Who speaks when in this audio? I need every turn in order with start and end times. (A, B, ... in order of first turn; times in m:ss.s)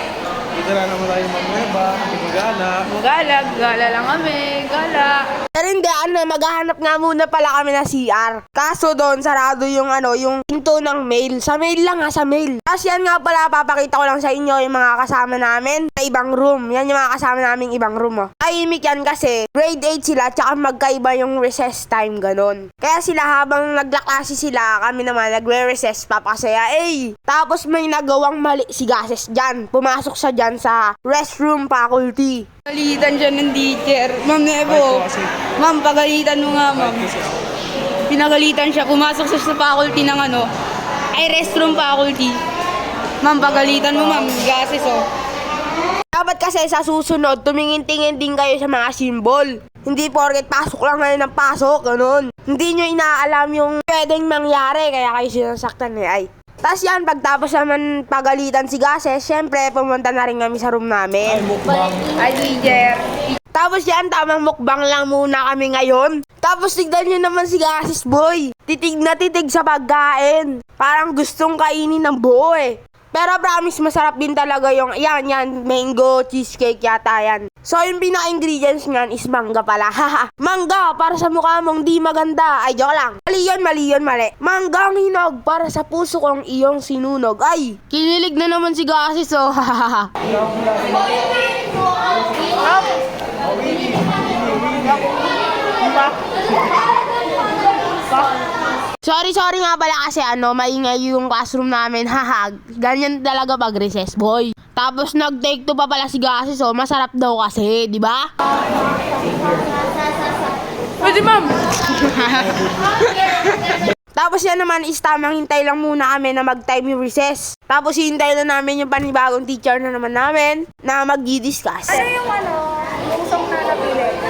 0:00.6-0:02.9 A
0:02.8-0:05.3 B
0:05.5-0:32.5 C
0:32.7-0:37.1 B
0:35.0-0:35.4 A
0:38.1-0:40.5 B
0:41.1-0:42.4 B
0:43.2-0:45.1 B
0:46.1-1:01.6 C
1:01.7-1:03.1 B
1:03.5-1:30.1 C
1:39.0-1:48.3 C
1:51.0-1:52.5 B
1:54.2-2:02.1 C
2:02.0-2:04.2 B